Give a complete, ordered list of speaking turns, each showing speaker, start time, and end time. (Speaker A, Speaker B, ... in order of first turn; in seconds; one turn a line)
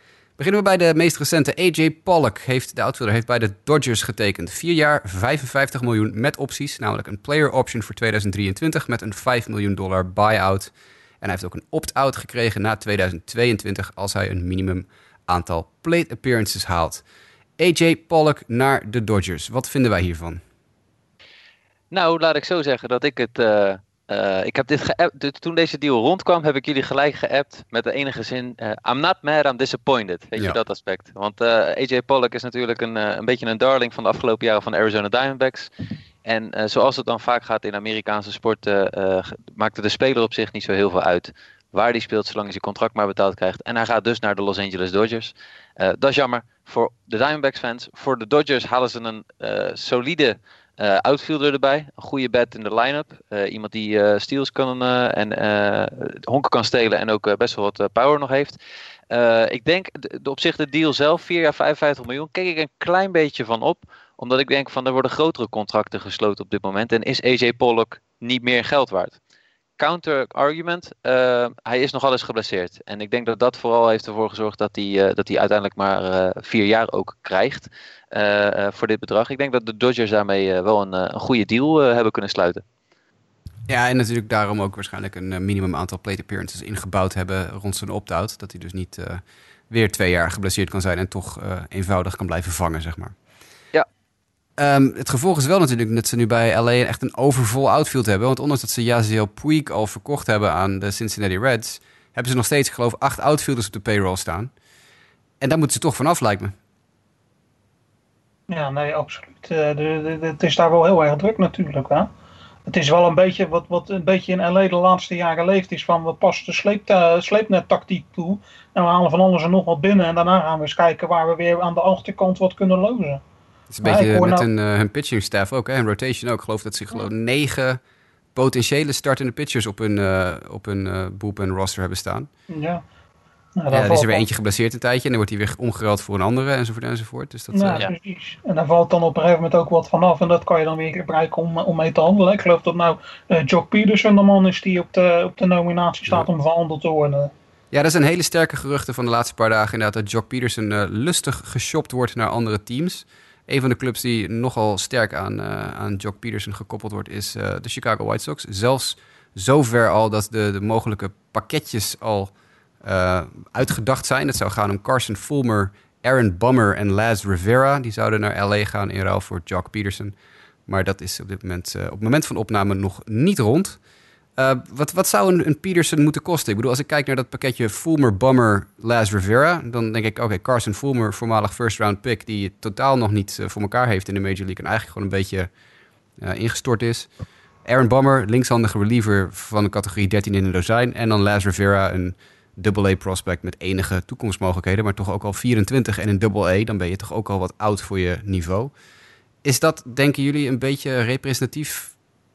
Speaker A: 0.4-17.0
Speaker A: 17.6-20.4
Speaker B: 21.9-35.7
Speaker B: 36.2-58.6
Speaker B: 59.1-69.2
Speaker B: 69.8-82.6
Speaker A: 83.7-93.2
Speaker A: 94.6-104.5
Speaker A: 105.4-106.5
Speaker C: 108.5-112.1
Speaker C: 112.7-123.2
Speaker A: 123.7-127.8
Speaker C: 123.8-124.5
Speaker A: 128.3-132.3
Speaker C: 132.5-132.8
Speaker C: 133.6-134.2
Speaker A: 133.7-137.9
Speaker C: 137.5-147.3
Speaker A: 147.7-170.2
Speaker A: 170.7-173.8
Speaker A: 174.4-185.5
Speaker A: 186.2-187.1
Speaker A: 187.7-198.7
Speaker A: 199.4-201.9